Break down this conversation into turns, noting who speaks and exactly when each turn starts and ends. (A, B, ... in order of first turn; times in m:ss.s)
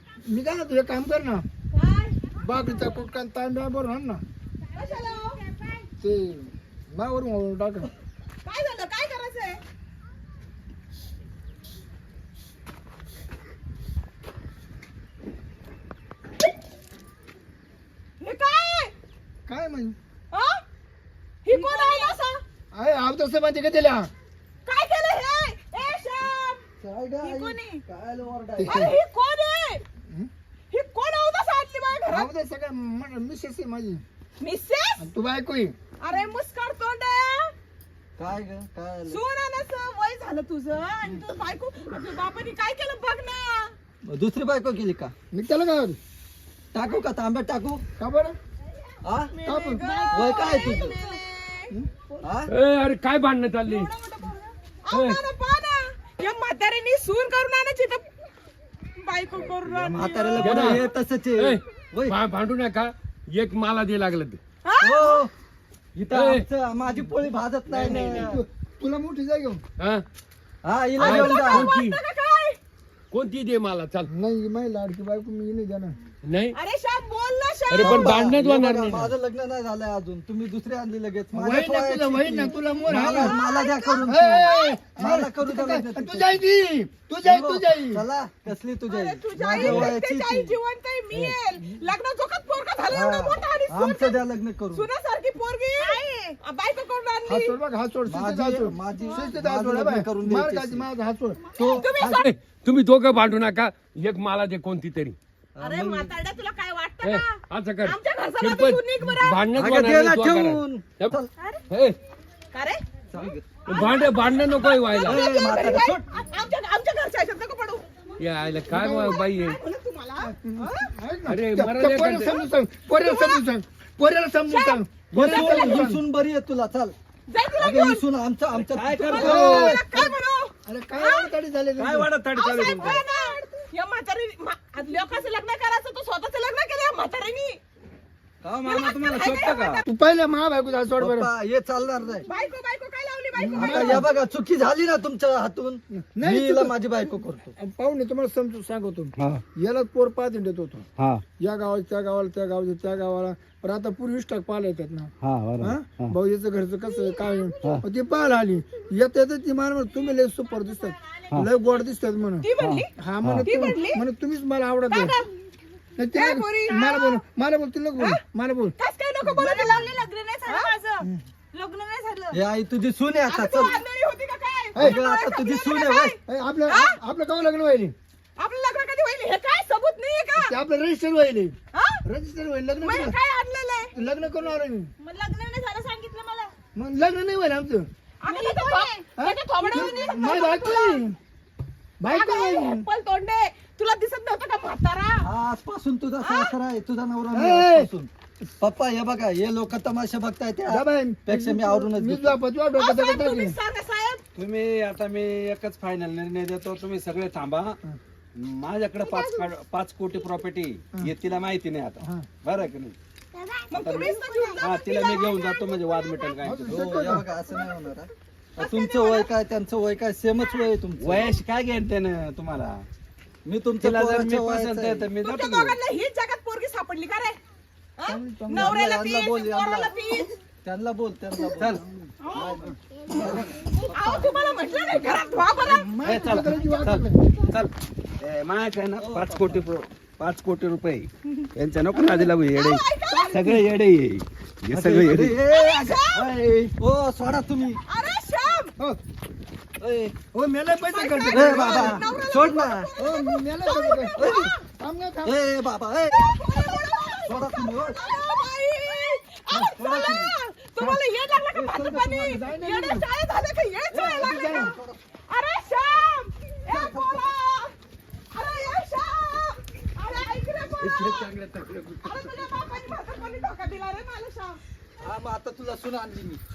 0:00.2-0:01.4 A
0:01.7-0:02.3 B
0:02.4-0:04.2 A
0:04.7-0:05.5 B
0:06.0-0:07.9 A
0:08.4-0:09.6 B
0:18.2-0:18.9 B
0:19.4-0:20.0 A
0:20.3-0:20.6 B
0:21.4-0:22.4 B
0:21.5-0:22.2 C
0:22.7-0:24.1 A
0:24.6-0:26.6 B
0:26.8-0:28.9 D
0:27.2-0:27.7 C
0:28.6-0:28.9 A
0:28.6-0:29.8 B
0:30.7-0:32.3 B
0:32.1-0:34.0 A
0:34.4-0:35.1 B
0:35.0-0:35.7 A
0:36.0-0:37.5 B
0:38.2-0:39.2 D
0:39.1-0:43.7 B
0:44.0-0:45.1 D
0:45.3-0:46.0 A
0:46.7-0:47.8 D
0:48.0-0:48.3 A
0:49.0-0:49.3 D
0:49.3-0:51.7 B
0:49.4-0:50.0 A
0:50.1-0:51.0 D
0:51.7-0:52.0 A
0:52.2-0:52.5 D
0:52.5-0:53.9 E
0:53.7-0:54.3 B
0:54.1-0:54.5 C
0:54.8-0:58.1 B
0:54.9-0:55.2 E
0:59.0-1:00.8 B
0:59.7-1:02.2 D
1:00.4-1:00.8 E
1:01.4-1:04.4 E
1:04.6-1:05.2 B
1:04.8-1:05.3 D
1:05.9-1:08.4 D
1:06.1-1:06.4 E
1:07.7-1:09.6 A
1:10.6-1:11.7 D
1:11.0-1:12.0 E
1:11.0-1:12.6 B
1:13.1-1:14.1 E
1:14.1-1:16.0 A
1:16.2-1:16.6 E
1:16.5-1:18.2 B
1:17.7-1:19.1 E
1:17.8-1:26.4 D
1:21.3-1:23.4 A
1:22.8-1:24.8 B
1:24.0-1:28.0 A
1:27.2-1:30.6 D
1:28.9-1:37.6 B
1:29.6-1:29.9 E
1:32.9-1:34.9 D
1:35.8-1:36.4 C
1:37.3-1:41.4 A
1:38.0-1:40.9 D
1:41.6-1:42.2 D
1:41.6-1:42.3 B
1:42.0-1:45.2 E
1:45.6-1:46.1 D
1:45.6-1:49.5 B
1:47.0-1:51.1 E
1:49.5-1:51.3 D
1:51.7-1:52.0 E
1:52.5-1:57.8 B
1:53.1-1:53.5 D
1:53.7-1:55.2 E
1:55.0-1:56.2 D
1:58.2-1:59.6 E
1:58.7-1:59.2 A
1:59.1-2:00.9 B
2:00.2-2:06.0 A
2:01.3-2:02.3 E
2:03.0-2:03.4 B
2:04.5-2:04.8 B
2:05.1-2:06.9 D
2:05.3-2:05.8 B
2:07.3-2:08.0 B
2:07.6-2:09.6 D
2:08.5-2:09.8 F
2:08.9-2:11.3 B
2:09.1-2:10.1 A
2:10.6-2:12.1 A
2:11.8-2:13.0 F
2:12.3-2:17.6 B
2:18.4-2:19.8 F
2:18.6-2:19.8 B
2:19.8-2:21.3 A
2:21.0-2:22.3 D
2:22.3-2:24.1 B
2:23.4-2:24.1 A
2:23.5-2:27.5 D
2:26.0-2:26.7 A
2:27.6-2:30.8 A
2:31.0-2:31.2 D
2:31.4-2:45.2 A
2:35.2-2:36.2 D
2:42.4-2:42.9 B
2:42.6-2:43.5 D
2:43.4-2:44.0 B
2:44.9-2:45.3 B
2:46.0-2:48.8 A
2:46.1-2:47.2 B
2:48.8-2:49.9 B
2:49.4-2:52.4 C
2:50.4-2:50.7 B
2:52.3-2:53.8 D
2:53.3-2:57.0 B
2:54.7-2:56.2 D
2:56.2-2:57.9 A
2:58.4-3:00.5 B
3:00.4-3:01.5 A
3:01.7-3:02.0 B
3:02.0-3:03.1 A
3:02.8-3:03.9 B
3:03.9-3:04.9 A
3:05.0-3:06.5 C
3:06.8-3:07.9 A
3:08.2-3:11.0 B
3:08.2-3:09.1 C
3:09.2-3:11.2 A
3:12.0-3:12.8 A
3:12.1-3:15.2 B
3:15.2-3:22.4 D
3:16.2-3:16.5 B
3:17.3-3:17.9 A
3:20.7-3:23.6 A
3:22.8-3:24.2 B
3:24.4-3:27.8 F
3:28.3-3:33.0 F
3:29.0-3:29.5 B
3:32.0-3:32.3 A
3:33.3-3:35.4 C
3:33.7-3:35.3 B
3:33.7-3:37.0 F
3:36.4-3:37.2 A
3:36.6-3:41.3 D
3:38.6-3:39.3 B
3:41.0-3:42.8 F
3:43.4-3:45.1 D
3:43.8-3:45.8 F
3:45.2-3:47.4 B
3:48.0-3:50.4 B
3:48.0-3:48.8 A
3:48.5-3:49.9 D
3:50.6-3:54.4 D
3:51.6-3:51.8 F
3:52.2-3:52.5 B
3:53.7-3:55.9 B
3:55.6-3:57.2 A
3:56.0-4:05.4 F
3:59.0-3:59.6 D
4:01.9-4:03.3 B
4:03.1-4:03.6 A
4:04.7-4:07.8 D
4:05.4-4:06.3 B
4:07.9-4:08.7 B
4:09.8-4:10.1 D
4:10.3-4:12.2 A
4:10.8-4:14.6 B
4:11.3-4:12.9 D
4:13.0-4:15.4 A
4:14.2-4:14.5 D
4:15.2-4:16.2 D
4:16.1-4:24.7 B
4:17.2-4:18.0 D
4:19.7-4:20.3 D
4:21.5-4:22.5 D
4:22.2-4:23.0 A
4:23.9-4:25.0 D
4:24.1-4:24.7 A
4:25.3-4:27.7 B
4:26.7-4:27.3 D
4:28.3-4:31.3 B
4:30.8-4:32.4 E
4:32.0-4:34.6 B
4:35.0-4:36.4 D